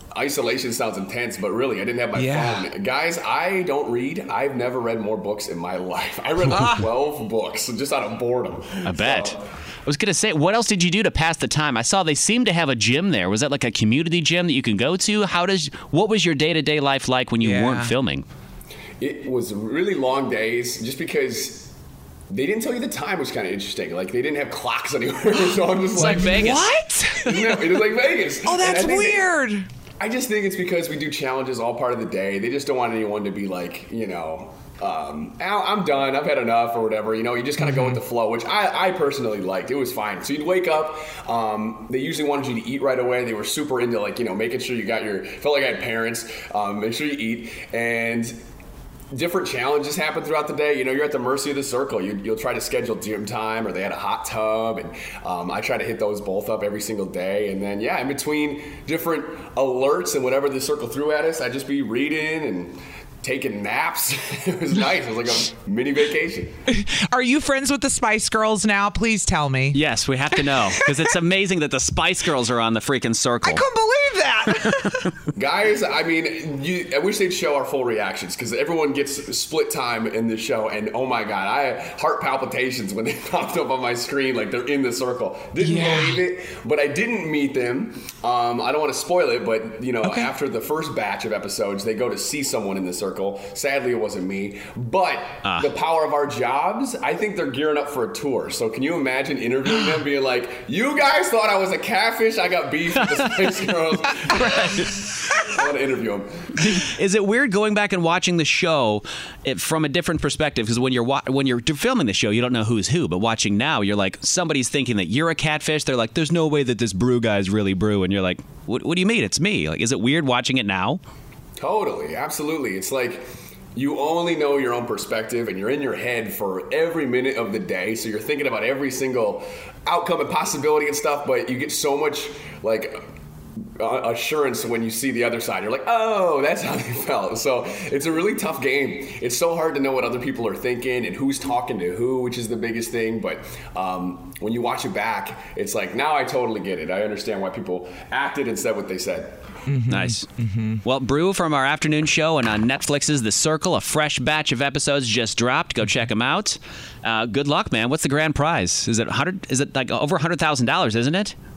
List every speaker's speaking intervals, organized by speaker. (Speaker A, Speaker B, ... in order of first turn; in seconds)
Speaker A: 0.1-9.4, 19.0-21.7, 22.3-26.4, 27.3-29.2, 30.0-48.4, 49.1-66.5, 75.3-104.8, 105.4-106.5, 121.6-133.0, 133.8-149.4
Speaker B: 2.1-2.6, 6.5-6.9, 17.4-17.9, 26.0-27.6, 28.4-29.6, 37.6-38.0, 66.7-69.8, 70.4-70.8, 73.4-75.1, 85.6-86.2, 104.3-104.8, 149.7-150.8
Speaker C: 8.8-18.2, 25.9-26.8, 69.7-73.6, 95.4-95.7, 103.0-103.4, 104.3-105.1, 106.5-121.0, 149.9-150.3, 150.8-161.3